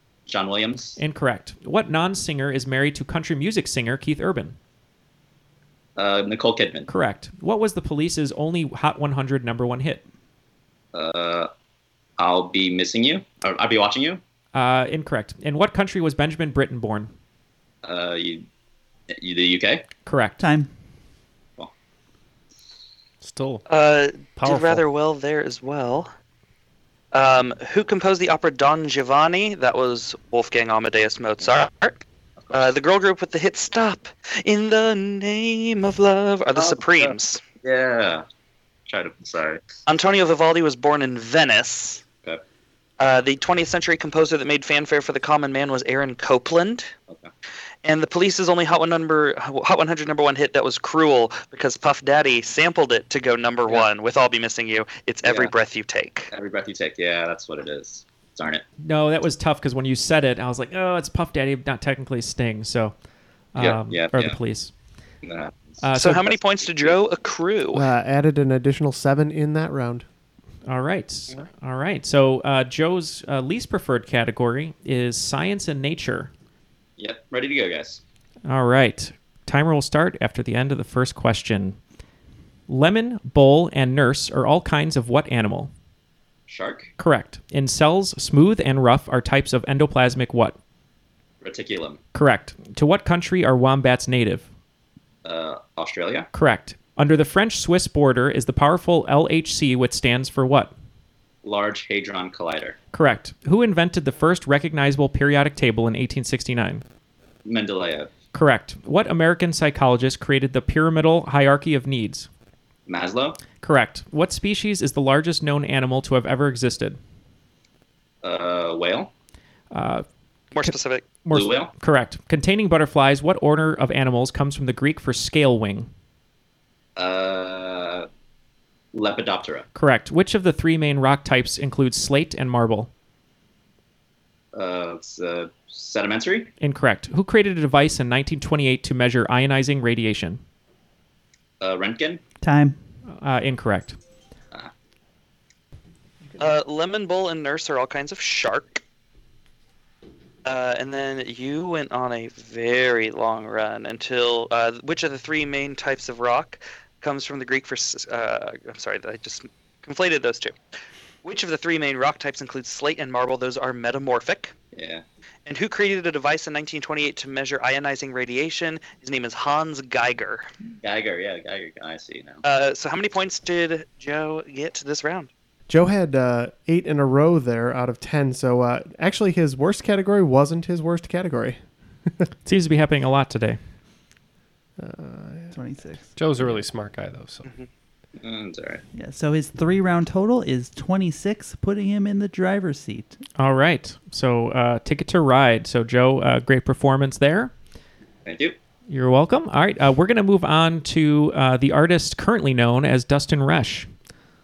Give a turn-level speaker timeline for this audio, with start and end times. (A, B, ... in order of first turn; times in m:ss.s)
0:00.3-0:01.0 A
0:01.0-0:04.6 B
0:06.0-0:06.9 A
0:06.9-0:10.0 B
0:10.9-0:11.5 A
0:12.2-0:14.2 A
0:14.5-0:17.1 B
0:17.8-0:18.4 A
0:19.1-0:19.9 A
0:20.0-0:20.4 B
0:20.4-0:20.7 C
0:23.2-0:23.6 D
0:23.7-0:26.1 E
0:24.4-0:24.8 D
0:27.1-0:32.0 E
0:32.4-0:32.7 A
0:32.5-0:37.4 E
0:36.5-0:38.2 A
0:38.9-0:39.6 A
0:39.9-0:42.0 E
0:43.0-0:46.9 E
0:47.8-0:56.3 E
0:55.2-0:55.5 A
0:56.3-0:58.6 A
0:58.8-1:02.9 B
1:03.5-1:04.7 B
1:03.6-1:04.4 A
1:05.2-1:07.0 A
1:05.8-1:06.3 B
1:05.9-1:07.8 E
1:07.7-1:10.0 F
1:10.6-1:16.3 B
1:17.0-1:18.0 A
1:18.4-1:21.8 B
1:22.7-1:25.7 B
1:26.5-1:26.9 A
1:27.0-1:30.6 B
1:31.4-1:32.0 A
1:32.1-1:34.5 B
1:35.2-1:36.3 A
1:36.3-1:40.7 B
1:41.4-1:42.8 A
1:42.9-1:46.8 B
1:47.4-1:48.1 A
1:48.3-1:52.3 B
1:52.9-1:53.4 A
1:53.6-1:57.0 B
1:58.2-1:59.1 A
1:59.7-2:00.0 B
2:00.5-2:01.2 E
2:01.2-2:05.9 B
2:01.3-2:01.7 A
2:07.0-2:08.1 A
2:08.9-2:09.6 A
2:09.7-2:12.9 B
2:14.5-2:16.5 A
2:16.6-2:20.4 B
2:21.6-2:22.2 A
2:22.4-2:22.8 C
2:23.1-2:24.0 B
2:26.4-2:28.8 E
2:30.4-2:40.5 E
2:41.2-2:44.5 E
2:44.7-2:45.0 A
2:45.4-2:50.5 E
2:50.8-2:52.4 A
2:52.4-2:55.3 E
2:55.7-3:02.2 F
3:02.4-3:03.6 B
3:04.8-3:05.6 F
3:05.5-3:06.1 C
3:06.1-3:07.4 D
3:08.2-3:08.8 A
3:08.9-3:13.2 C
3:13.4-3:17.5 B
3:18.2-3:18.6 A
3:18.9-3:23.9 B